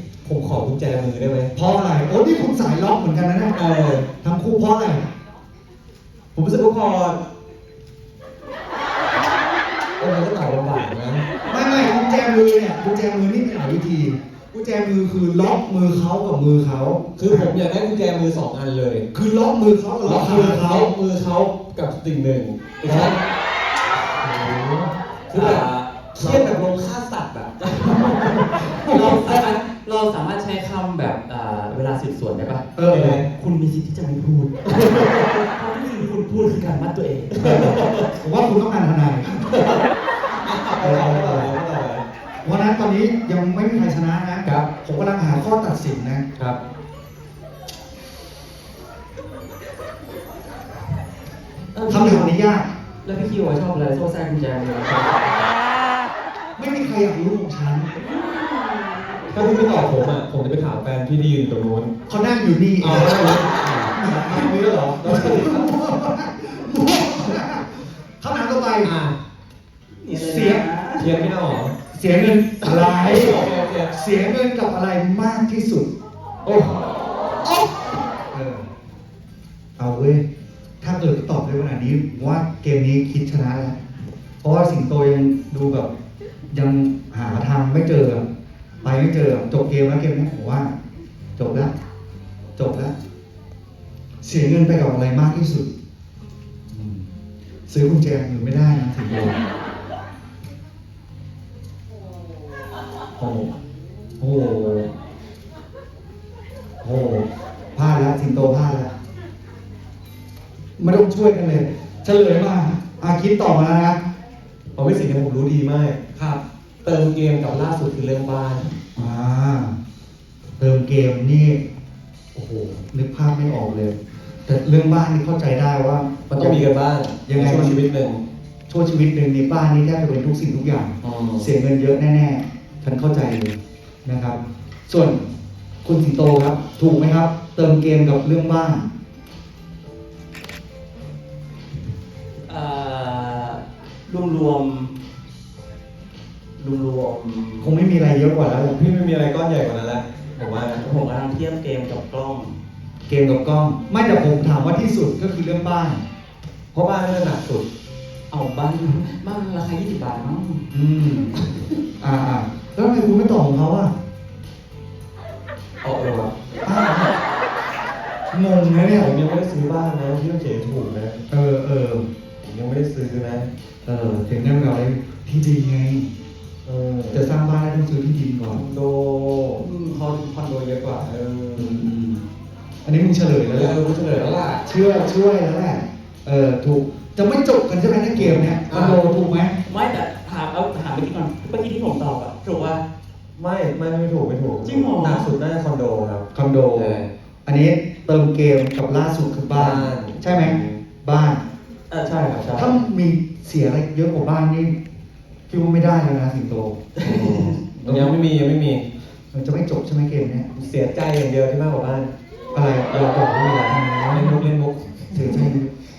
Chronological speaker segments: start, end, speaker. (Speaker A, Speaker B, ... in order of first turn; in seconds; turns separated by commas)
Speaker A: 0.2-1.5, Speaker B: 1.5-3.5, Speaker A: 3.5-4.1, Speaker B: 4.2-5.0, Speaker A: 6.3-7.2, Speaker A: 10.0-11.2, Speaker B: 11.5-17.5, Speaker A: 17.2-19.1, Speaker B: 19.1-20.9, Speaker A: 20.0-23.2, Speaker B: 22.9-23.2, Speaker B: 24.2-24.9, Speaker A: 25.3-28.0, Speaker C: 25.3-26.5, Speaker C: 27.6-32.7, Speaker B: 28.0-29.5, Speaker B: 32.8-33.2, Speaker A: 32.9-33.3, Speaker C: 33.3-37.7, Speaker A: 34.6-35.5, Speaker A: 37.3-38.1, Speaker B: 37.4-39.5, Speaker A: 40.4-42.0, Speaker B: 40.8-41.5, Speaker B: 42.4-46.2, Speaker A: 44.4-44.7, Speaker C: 51.7-52.4, Speaker B: 51.9-52.7, Speaker C: 53.0-55.5, Speaker B: 56.6-57.9, Speaker C: 58.5-59.1, Speaker A: 59.3-61.9, Speaker B: 62.1-68.9, Speaker A: 62.8-65.8, Speaker A: 68.8-69.2, Speaker C: 70.0-71.1, Speaker B: 70.1-70.7, Speaker A: 71.0-71.7, Speaker B: 71.9-75.9, Speaker A: 72.6-73.9, Speaker A: 76.4-76.8, Speaker B: 78.3-78.6, Speaker B: 79.8-80.2, Speaker B: 80.8-83.8, Speaker B: 84.4-85.9, Speaker B: 86.5-88.2, Speaker B: 88.8-90.7, Speaker B: 91.4-91.7, Speaker B: 92.5-92.9, Speaker B: 94.2-95.7, Speaker B: 96.7-97.1, Speaker B: 97.7-99.4, Speaker A: 103.2-103.5, Speaker B: 104.2-104.9, Speaker B: 106.8-108.9, Speaker B: 110.8-114.0, Speaker A: 114.8-116.0, Speaker B: 116.2-116.4, Speaker A: 116.8-118.7, Speaker B: 119.0-119.7, Speaker B: 120.6-121.6, Speaker B: 122.3-126.7, Speaker A: 126.3-128.2, Speaker B: 127.2-127.8, Speaker B: 128.7-135.2, Speaker A: 131.0-131.5, Speaker B: 135.8-138.9, Speaker C: 142.5-144.9, Speaker C: 146.6-147.7, Speaker B: 147.6-148.8, Speaker A: 148.6-150.8, Speaker C: 150.8-152.6, Speaker B: 153.1-156.0, Speaker A: 156.7-157.7, Speaker C: 158.3-160.7, Speaker B: 160.7-161.3, Speaker B: 162.0-163.9, Speaker A: 165.8-166.3, Speaker B: 166.6-167.1, Speaker B: 168.3-169.1, Speaker A: 168.9-171.2, Speaker B: 171.3-172.0, Speaker A: 172.4-173.5, Speaker B: 173.8-176.1, Speaker A: 176.6-177.3, Speaker B: 177.1-178.6, Speaker A: 178.5-179.7, Speaker C: 179.6-181.1, Speaker A: 180.9-181.9, Speaker B: 181.6-182.2, Speaker B: 182.8-183.7, Speaker A: 183.5-184.6, Speaker B: 184.6-189.5, Speaker A: 188.2-189.0, Speaker C: 189.6-192.8, Speaker A: 193.3-197.1, Speaker C: 194.6-195.3, Speaker B: 196.3-201.4, Speaker A: 199.5-200.8, Speaker C: 201.9-202.7, Speaker A: 202.0-202.7, Speaker B: 202.5-204.7, Speaker B: 205.5-206.8, Speaker C: 206.9-207.6, Speaker A: 207.0-208.8, Speaker B: 207.8-208.2, Speaker B: 209.3-210.4, Speaker A: 210.5-212.1, Speaker B: 212.5-214.5, Speaker A: 213.5-215.5, Speaker B: 215.1-215.7